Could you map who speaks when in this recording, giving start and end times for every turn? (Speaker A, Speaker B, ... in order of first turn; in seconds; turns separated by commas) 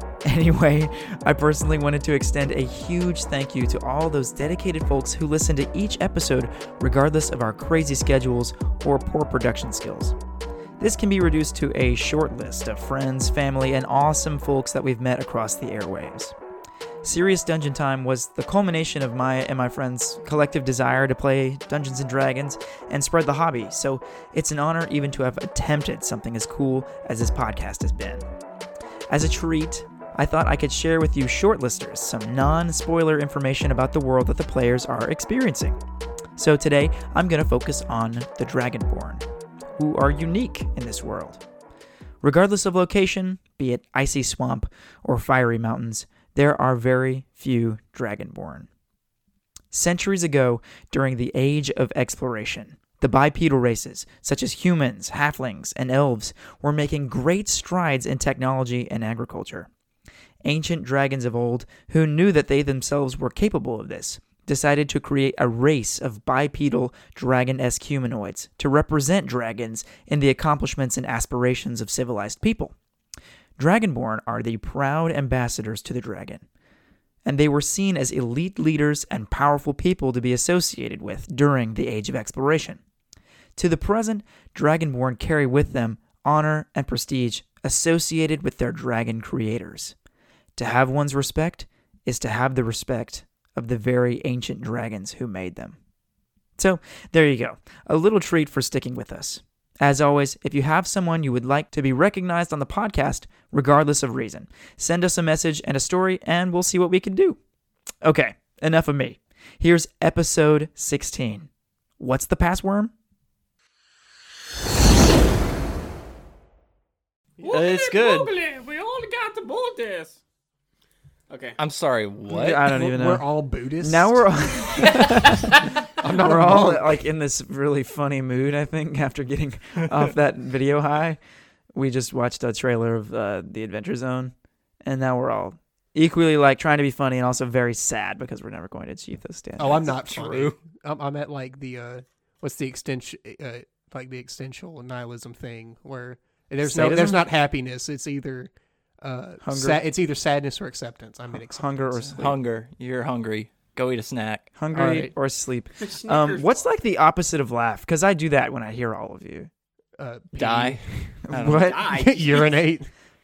Speaker A: 0.2-10.2, Speaker A: 10.8-16.4, Speaker A: 17.0-28.2, Speaker A: 29.1-35.8, Speaker A: 36.4-39.2, Speaker A: 39.8-41.4, Speaker A: 42.2-48.7, Speaker A: 49.7-59.7, Speaker A: 60.4-72.7, Speaker A: 73.6-76.4, Speaker A: 77.2-82.8, Speaker A: 83.6-90.0, Speaker A: 90.6-95.8, Speaker A: 96.6-107.4, Speaker A: 108.0-112.9, Speaker B: 117.4-120.2, Speaker C: 117.4-118.3, Speaker B: 121.3-121.6, Speaker C: 121.6-122.7, Speaker A: 122.3-123.2, Speaker D: 122.6-125.0, Speaker A: 123.8-125.2, Speaker D: 126.0-127.0, Speaker A: 126.0-131.2, Speaker A: 131.7-140.0, Speaker D: 139.6-152.2, Speaker C: 139.8-140.6, Speaker A: 146.6-147.2, Speaker A: 149.4-149.8, Speaker A: 151.4-152.4, Speaker C: 152.2-154.5, Speaker A: 154.6-159.5, Speaker D: 154.7-155.1, Speaker B: 155.8-156.7, Speaker D: 160.0-161.2, Speaker C: 160.3-161.8, Speaker A: 161.3-161.9, Speaker B: 161.4-162.6, Speaker D: 161.8-162.9